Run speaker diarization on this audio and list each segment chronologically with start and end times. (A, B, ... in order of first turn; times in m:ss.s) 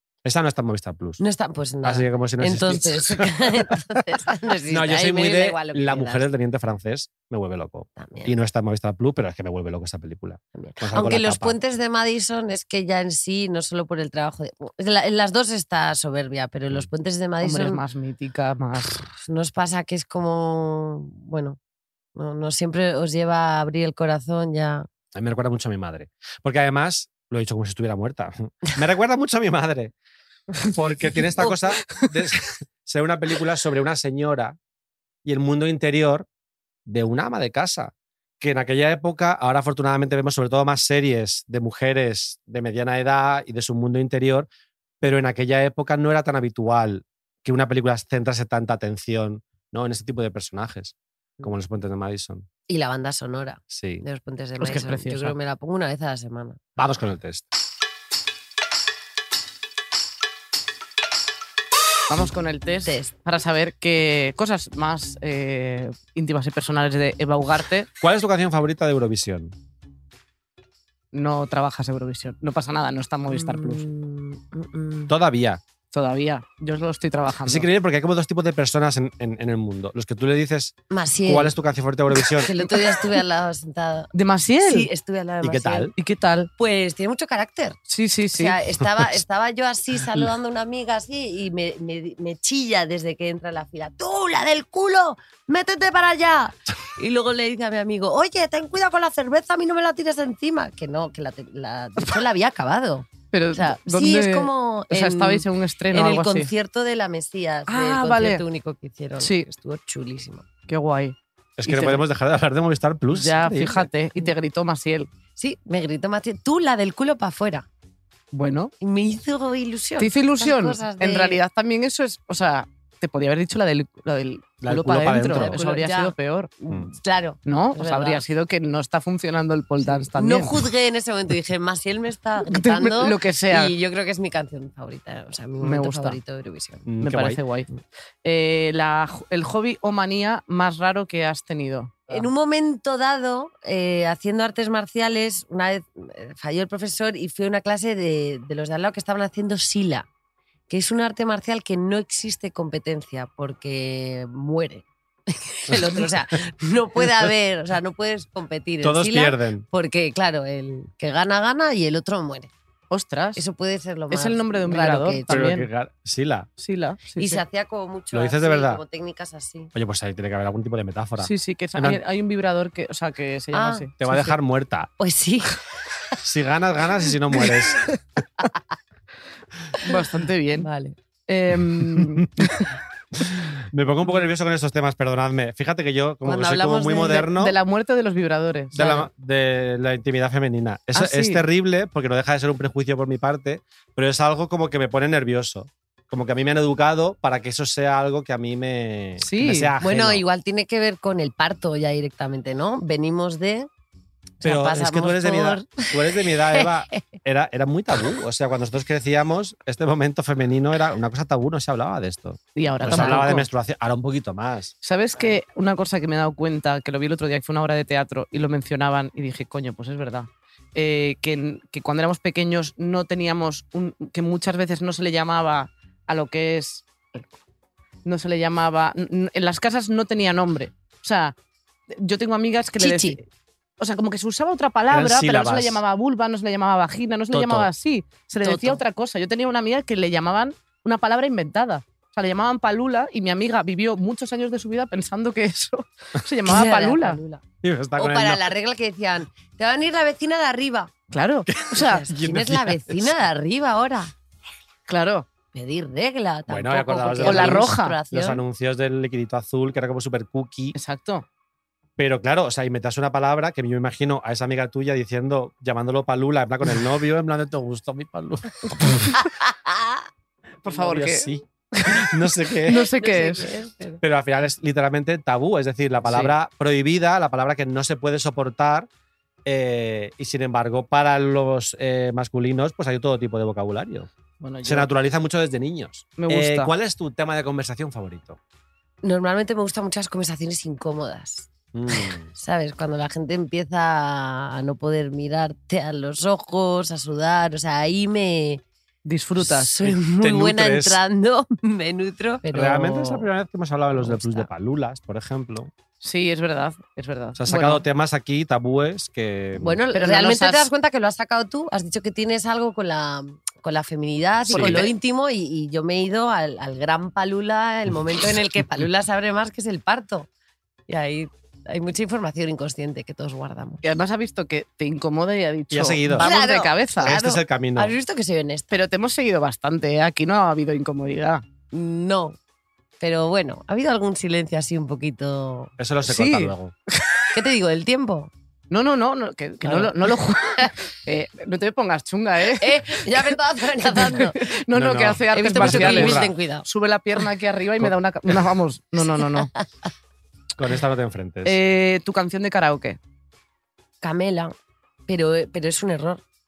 0:00.2-0:01.2 A
0:01.2-0:06.2 B
0:01.8-0:03.8 A
0:04.7-0:11.6 A
0:08.0-0:08.3 B
0:10.5-0:17.8 B
0:17.4-0:19.0 C
0:19.1-0:21.6 B
0:22.1-0:24.9 B
0:25.1-0:29.9 A
0:30.6-0:34.6 A
0:35.2-0:36.3 A
0:36.8-0:44.5 A
0:45.0-0:52.5 A
0:52.7-0:56.6 B
0:53.7-0:54.0 A
0:54.6-0:55.3 C
0:56.8-0:57.5 A
1:02.1-1:07.9 C
1:02.8-1:03.1 B
1:08.0-1:09.5 A
1:11.1-1:13.8 C
1:13.3-1:15.1 B
1:15.1-1:15.6 A
1:15.9-1:17.6 C
1:17.4-1:20.8 A
1:20.9-1:21.5 B
1:21.3-1:22.5 A
1:22.3-1:25.9 B
1:24.1-1:24.9 C
1:25.4-1:25.9 A
1:26.0-1:26.5 C
1:26.6-1:27.8 B
1:27.9-1:28.6 C
1:28.3-1:50.4 B
1:43.3-1:46.5 C
1:47.7-1:48.4 C
1:49.2-1:49.5 C
1:50.7-1:51.2 C
1:51.6-1:53.9 A
1:51.7-1:52.0 C
1:53.1-1:55.1 C
1:55.4-1:57.6 B
1:58.3-1:58.7 C
1:58.8-2:01.4 B
2:00.0-2:06.5 C
2:04.6-2:05.6 A
2:05.3-2:08.2 B
2:07.4-2:10.7 C
2:09.8-2:16.8 B
2:12.5-2:13.7 C
2:15.6-2:16.2 C
2:16.8-2:17.4 A
2:17.0-2:17.7 C
2:18.2-2:22.3 C
2:22.1-2:30.1 B
2:30.7-2:42.5 B
2:35.7-2:36.2 A
2:38.8-2:39.6 A
2:42.9-2:43.4 C
2:43.4-2:45.4 B
2:44.1-2:45.7 C
2:45.3-2:46.5 A
2:46.6-2:47.4 C
2:47.2-2:49.7 B
2:48.1-2:48.8 A
2:49.7-2:52.0 A
2:51.2-2:54.0 C
2:53.5-2:54.3 B
2:54.0-2:54.9 A
2:55.0-2:55.6 B
2:56.2-2:57.9 A
2:59.8-3:00.7 C
3:00.6-3:00.9 B
3:01.3-3:02.7 C
3:02.0-3:02.4 A
3:03.1-3:07.6 A
3:06.2-3:07.3 B
3:07.2-3:08.8 C
3:08.7-3:09.1 B
3:08.8-3:20.2 A
3:10.9-3:11.4 C
3:19.2-3:19.7 C
3:19.8-3:23.7 B
3:24.4-3:27.0 B
3:24.4-3:34.7 A
3:32.6-3:33.4 C
3:34.8-3:47.3 C
3:48.0-3:51.3 C
3:51.9-3:53.2 C
3:52.8-3:53.2 B
3:53.8-4:07.2 C
3:54.9-3:55.8 A
3:57.3-3:57.7 A
3:58.4-3:58.8 B
4:06.4-4:07.4 B
4:07.6-4:08.5 A
4:08.0-4:10.9 B
4:11.1-4:12.0 C
4:11.5-4:13.1 A
4:11.7-4:14.1 B
4:14.9-4:15.2 C
4:15.5-4:18.4 B
4:16.5-4:20.8 A
4:17.2-4:18.0 C
4:20.7-4:21.2 C
4:22.0-4:29.2 A
4:29.4-4:30.0 B
4:30.6-4:33.5 C
4:30.7-4:32.9 A
4:33.0-4:34.0 B
4:34.0-4:38.9 A
4:36.0-4:36.3 C
4:39.4-4:44.1 A
4:44.4-4:44.9 C
4:44.6-4:48.4 A
4:46.2-4:46.7 C
4:49.0-4:58.6 B
4:51.7-4:52.3 A
4:59.0-4:59.7 C
4:59.4-5:03.3 B
4:59.8-5:01.0 A
5:02.5-5:05.7 A
5:03.9-5:04.5 B
5:06.0-5:07.8 C
5:07.4-5:09.8 A
5:09.6-5:20.3 B
5:09.9-5:10.7 C
5:14.5-5:14.9 C
5:14.5-5:14.8 A
5:20.9-5:23.8 B
5:23.8-5:27.2 C
5:25.7-5:26.3 A
5:26.1-5:28.7 B
5:27.0-5:27.9 A
5:28.7-5:31.4 C
5:31.7-5:32.4 B
5:33.0-5:35.7 B
5:35.8-5:36.7 A
5:36.0-5:37.2 C
5:37.3-5:38.3 B
5:38.7-5:43.3 C
5:39.6-5:40.7 B
5:42.6-5:44.5 B
5:43.8-5:49.5 C
5:44.7-5:46.3 A
5:45.3-5:46.6 B
5:49.3-5:49.6 B
5:50.6-5:51.6 A
5:51.4-5:53.0 C
5:54.0-5:54.5 B
5:55.1-5:56.2 B